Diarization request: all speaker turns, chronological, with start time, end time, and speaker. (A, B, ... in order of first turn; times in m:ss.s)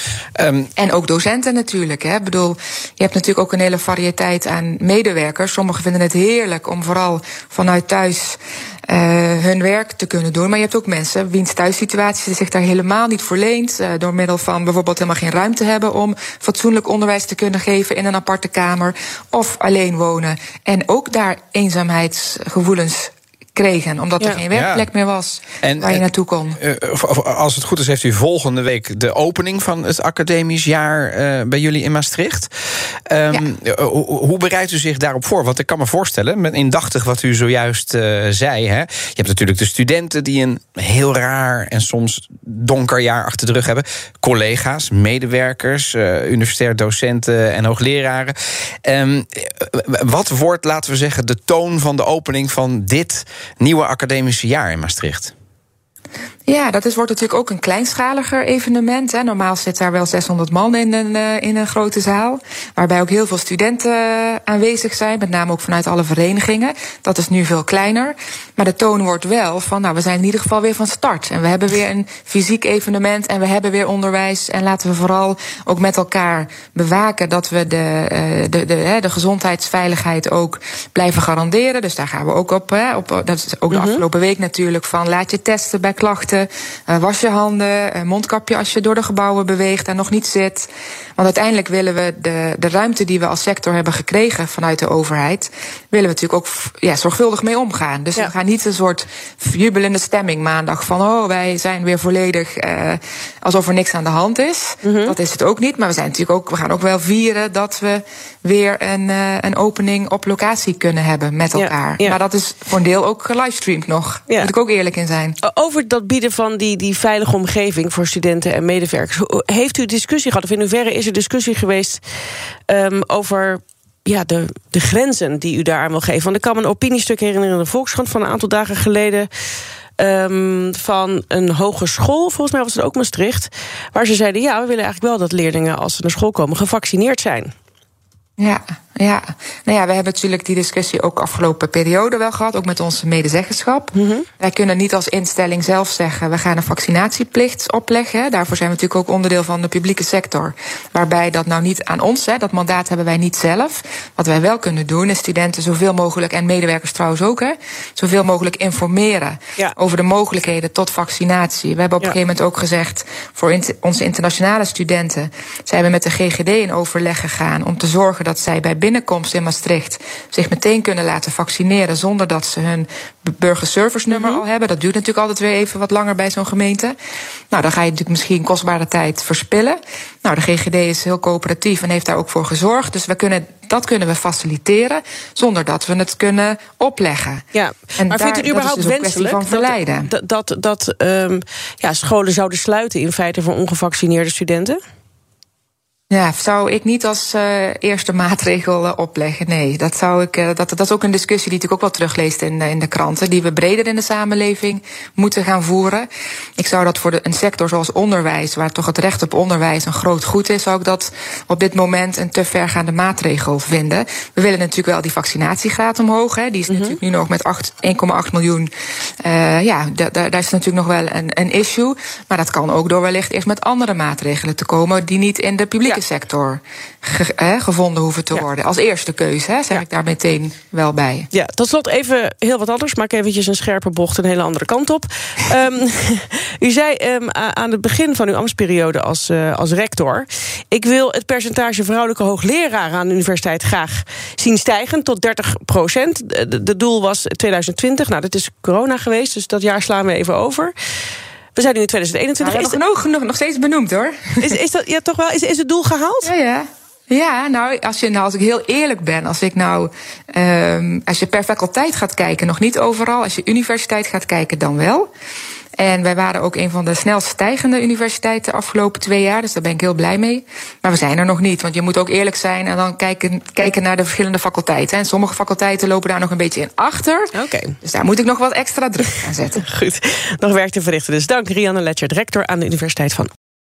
0:00.4-0:00.7 A
0:00.8-0:26.6 B
0:24.5-0:24.9 A
0:25.6-0:32.5 A
0:33.1-0:55.3 A
0:56.5-1:55.4 B
1:23.7-1:24.0 C
1:44.8-1:45.2 C
1:51.5-1:52.2 C
1:55.4-2:02.0 C
2:02.7-2:09.3 C
2:10.0-2:17.5 C
2:18.4-2:57.0 B
2:23.9-2:24.3 C
2:54.1-2:54.4 C
2:57.5-3:07.4 B
3:07.5-3:14.8 C
3:08.0-3:10.1 B
3:16.1-3:26.1 B
3:26.6-3:38.7 B
3:36.7-3:37.0 C
3:39.2-3:51.3 B
3:51.3-4:10.7 C
4:11.6-4:12.8 C
4:12.4-4:14.6 B
4:14.4-4:16.3 C
4:16.2-4:25.1 B
4:25.8-4:37.3 B
4:37.3-4:37.8 C
4:37.8-4:39.6 B
4:39.6-4:43.3 C